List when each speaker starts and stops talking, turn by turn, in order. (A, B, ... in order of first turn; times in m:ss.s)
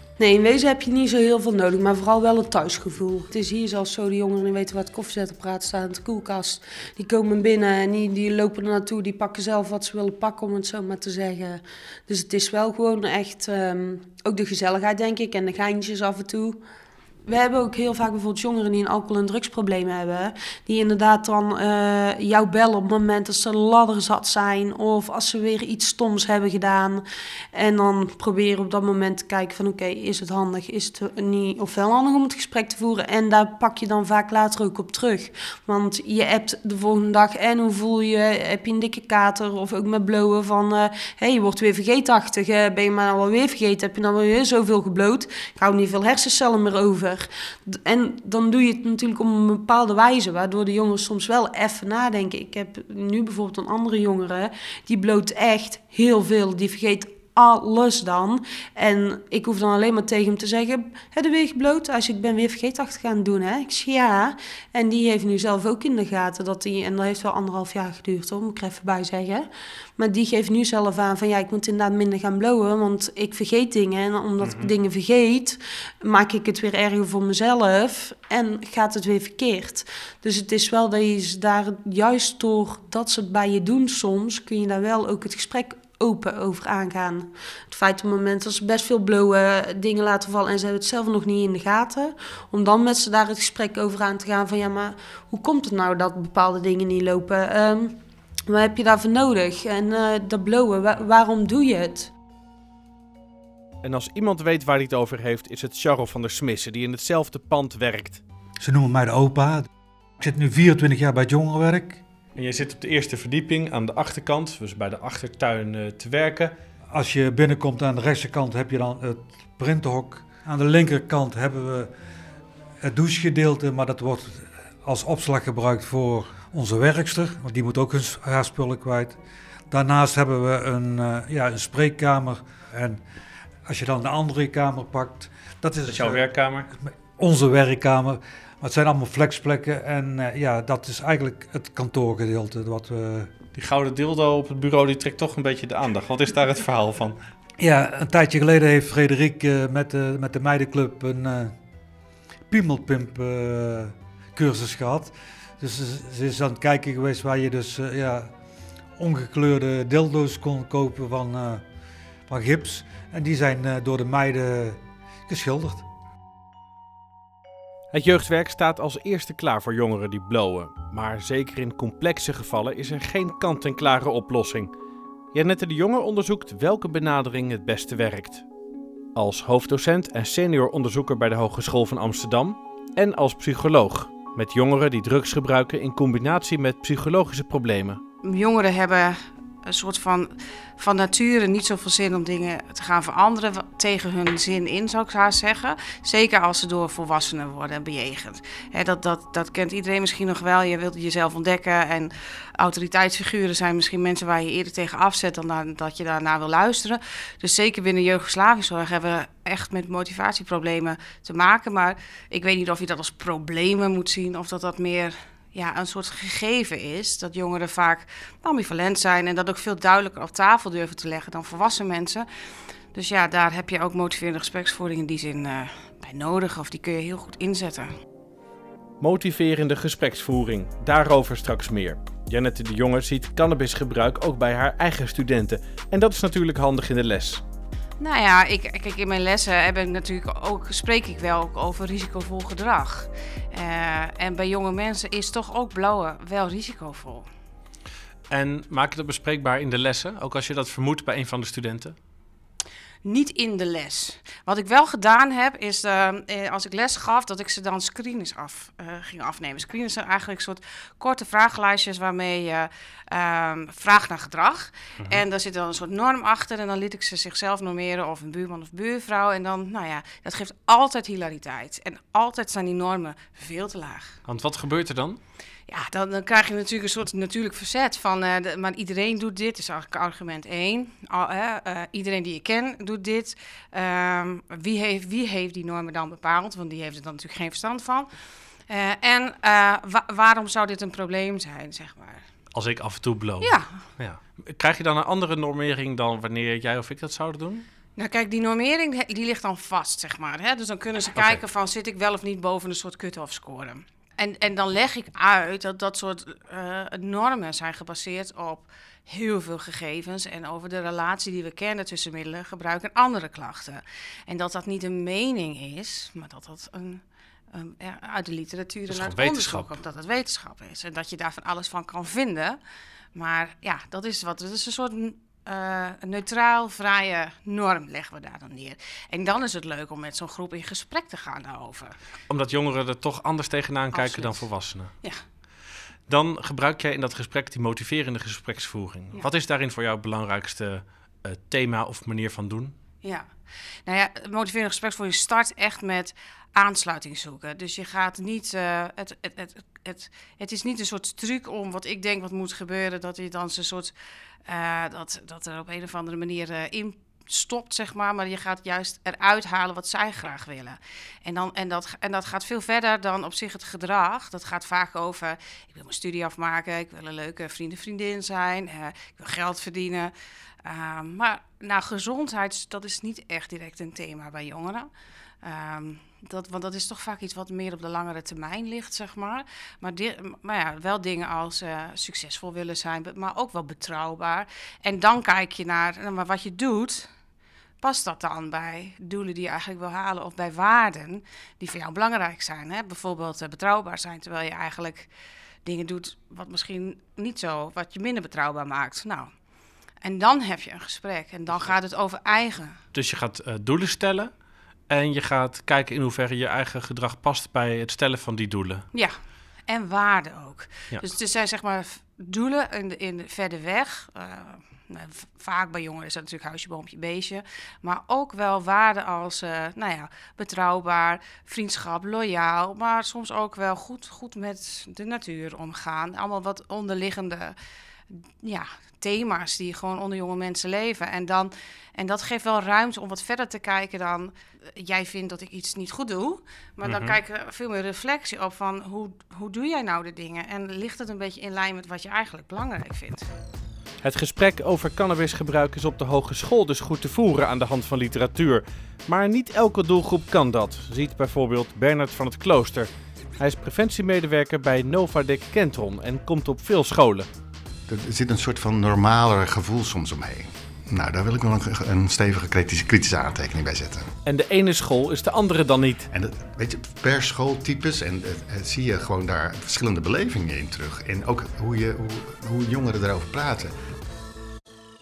0:00.2-0:16.6 A
0:17.2-1:42.1 A
1:14.4-1:14.7 B
1:43.8-1:48.2 B
1:48.6-1:49.7 C
1:50.2-1:52.0 C
1:52.3-1:56.5 B
1:56.9-2:01.9 C
2:02.8-2:09.2 C
2:09.7-2:13.0 C
2:13.6-2:16.2 C
2:15.9-2:16.7 B
2:16.8-2:23.3 C
2:23.5-2:27.2 B
2:27.6-2:31.5 C
2:32.5-2:38.3 C
2:39.0-2:41.6 C
2:42.3-2:45.8 C
2:47.9-2:54.7 B
2:55.3-2:58.4 B
2:59.1-3:08.0 B
3:08.2-3:42.2 D
3:42.9-3:47.9 D
3:49.0-3:57.4 B
3:58.0-4:07.2 D
4:08.3-4:11.9 B
4:13.0-4:34.2 D
4:34.2-4:35.2 B
4:35.7-4:48.1 D
4:48.7-4:52.2 D
4:52.5-4:57.6 B
4:58.0-5:17.0 D
5:01.1-5:01.4 B
5:17.5-5:22.6 D
5:18.9-5:19.7 B
5:23.1-5:31.9 D
5:32.3-5:34.9 B
5:33.9-5:34.4 D
5:36.1-5:42.8 B
5:43.0-5:43.3 D
5:43.8-5:53.9 D
5:54.5-6:10.1 D
6:10.6-6:14.9 D
6:15.4-6:27.1 D
6:27.8-6:35.1 D
6:35.6-6:39.3 D
6:40.0-6:42.8 D
6:42.9-6:44.3 B
6:44.9-6:48.8 B
6:49.7-7:07.6 D
7:08.1-7:23.3 D
7:16.8-7:17.2 B
7:24.0-7:37.3 B
7:37.9-7:44.1 E
7:44.2-7:46.1 B
7:46.1-7:53.7 E